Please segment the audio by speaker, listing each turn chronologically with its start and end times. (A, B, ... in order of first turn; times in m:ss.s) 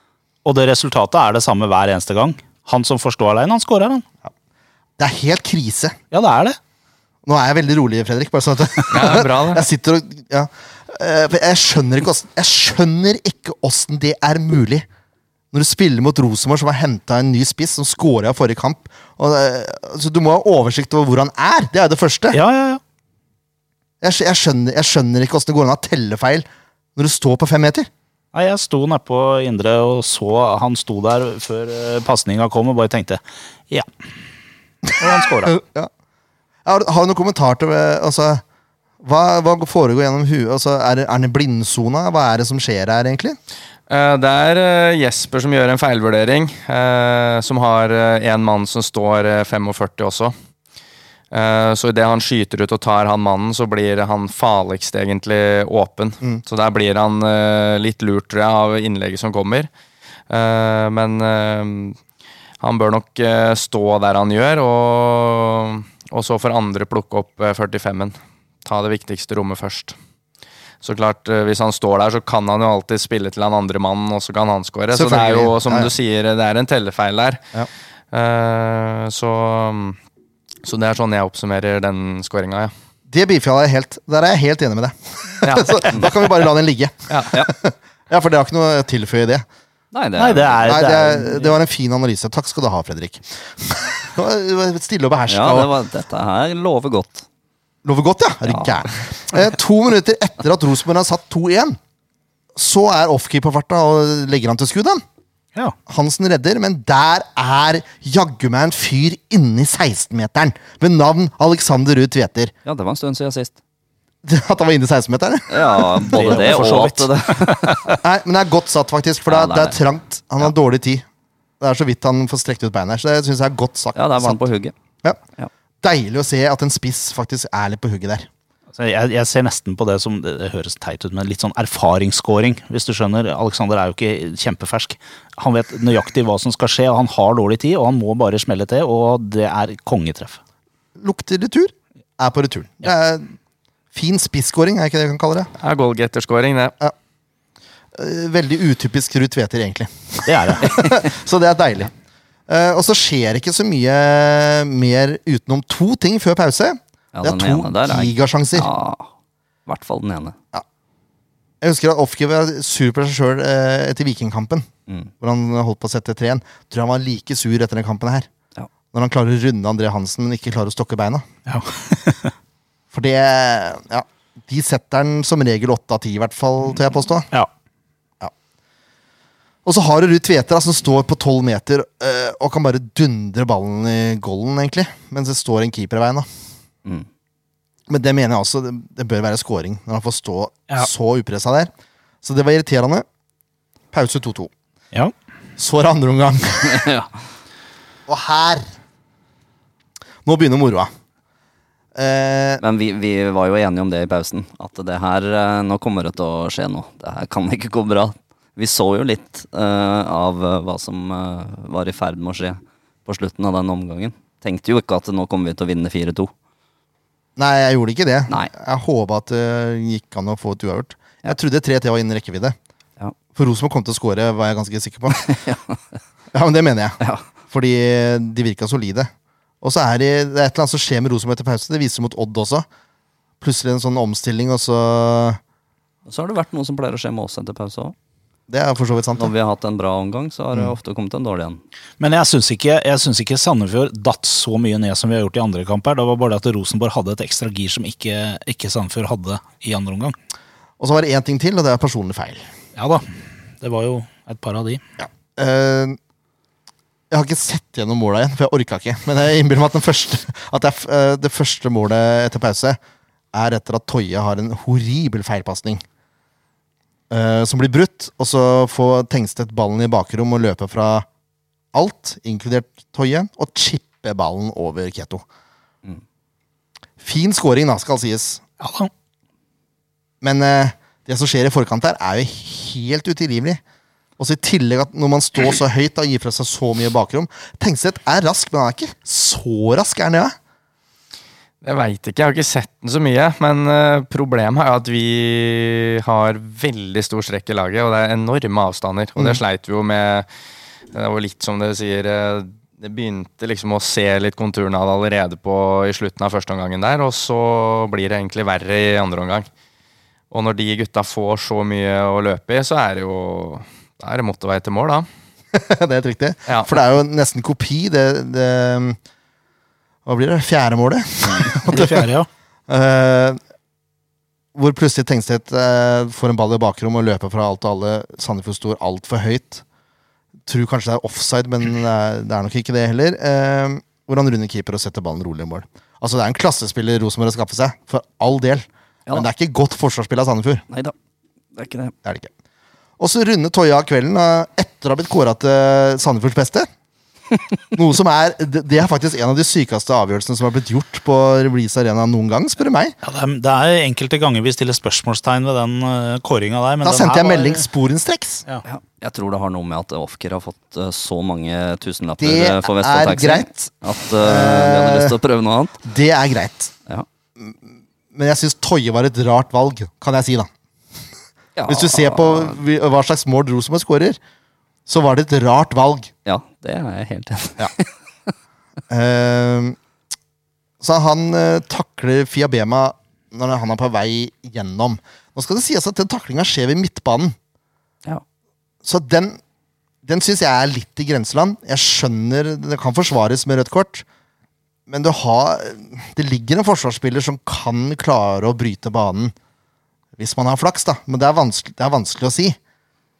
0:00.4-0:04.0 A
0:05.0-0:06.0 B
0:06.1-0:06.6 A
0:07.2-0:14.8 B
0:08.9-0:09.7 C
0:15.5-0:22.4 B
0:22.3-0:22.8 A
0:24.0-0:27.9 B
0:28.3-0:33.8 A
0:35.0-0:35.6 A
0:35.4-0:35.9 B
0:36.6-0:38.4 B
0:39.0-0:43.4 B
0:43.9-0:50.3 C
0:51.3-0:59.7 C
1:00.3-1:02.0 C
1:02.6-1:09.9 C
1:10.8-1:17.4 C
1:14.9-1:15.9 B
1:18.1-1:20.0 C
1:20.6-1:22.7 C
1:23.1-1:29.4 B
1:25.4-1:25.9 C
1:27.1-1:27.4 C
1:29.9-1:30.8 D
1:30.2-1:31.5 A
1:30.6-1:35.7 B
1:35.3-1:37.2 D
1:37.8-1:41.8 B
1:38.5-1:38.8 D
1:42.5-1:45.0 B
1:45.9-1:52.5 B
1:52.6-1:53.5 D
1:54.2-1:56.5 B
1:55.5-1:57.9 D
1:56.0-1:58.0 A
1:57.9-2:01.0 B
1:59.3-1:59.8 D
2:01.6-2:04.4 B
2:03.9-2:04.7 D
2:05.8-2:08.3 B
2:08.8-2:20.4 A
2:21.0-2:23.3 B
2:23.9-2:25.5 B
2:25.6-2:26.7 C
2:27.9-2:31.9 B
2:30.3-2:30.8 A
2:32.5-2:38.7 B
2:37.1-2:39.1 D
2:39.7-2:40.3 D
2:41.6-2:44.7 B
2:45.2-2:48.3 B
2:48.9-2:51.2 B
2:51.5-2:52.3 A
2:52.9-2:57.3 B
2:59.6-3:06.2 B
3:07.9-3:11.7 B
3:12.2-3:13.0 B
3:13.9-3:14.5 B
3:15.6-3:16.9 B
3:16.7-3:17.1 D
3:18.1-3:18.7 B
3:20.2-3:20.9 B
3:21.9-3:22.6 B
3:22.6-3:36.3 D
3:37.4-3:42.6 B
3:43.3-3:45.2 B
3:45.1-3:46.0 D
3:46.3-3:47.0 B
3:47.5-3:49.1 B
3:49.6-3:52.6 B
3:53.4-3:55.4 B
3:56.0-3:57.9 D
3:58.5-3:59.3 B
3:59.2-4:01.6 D
4:02.0-4:10.2 A
4:10.8-4:12.4 B
4:12.8-4:13.0 A
4:13.6-4:14.8 A
4:15.0-4:16.0 B
4:17.1-4:22.8 B
4:23.3-4:25.8 B
4:27.1-4:31.0 B
4:31.7-4:35.2 B
4:37.0-4:38.4 B
4:38.6-4:38.9 A
4:40.2-4:43.6 B
4:44.2-4:50.3 B
4:51.6-5:00.3 C
5:00.9-5:09.5 C
5:10.3-5:15.1 C
5:15.5-5:19.0 B
5:16.5-5:16.7 C
5:20.0-5:22.1 B
5:21.7-5:22.3 A
5:22.7-5:23.4 B
5:24.5-5:29.6 B
5:30.5-5:40.6 B
5:41.5-5:41.9 D
5:42.0-5:42.3 B
5:43.0-5:46.7 B
5:47.7-5:53.0 B
5:53.0-5:57.6 A
5:56.8-5:58.4 B
5:58.6-6:05.8 D
6:02.2-6:03.5 B
6:04.2-6:05.1 B
6:05.8-6:06.7 B
6:08.1-6:10.5 B
6:11.6-6:12.6 D
6:11.6-6:14.2 B
6:14.9-6:16.1 B
6:16.2-6:18.3 D
6:18.9-6:19.8 B
6:20.8-6:27.4 B
6:28.8-6:29.4 B
6:30.0-6:34.0 B
6:34.9-6:39.3 B
6:40.2-6:42.6 B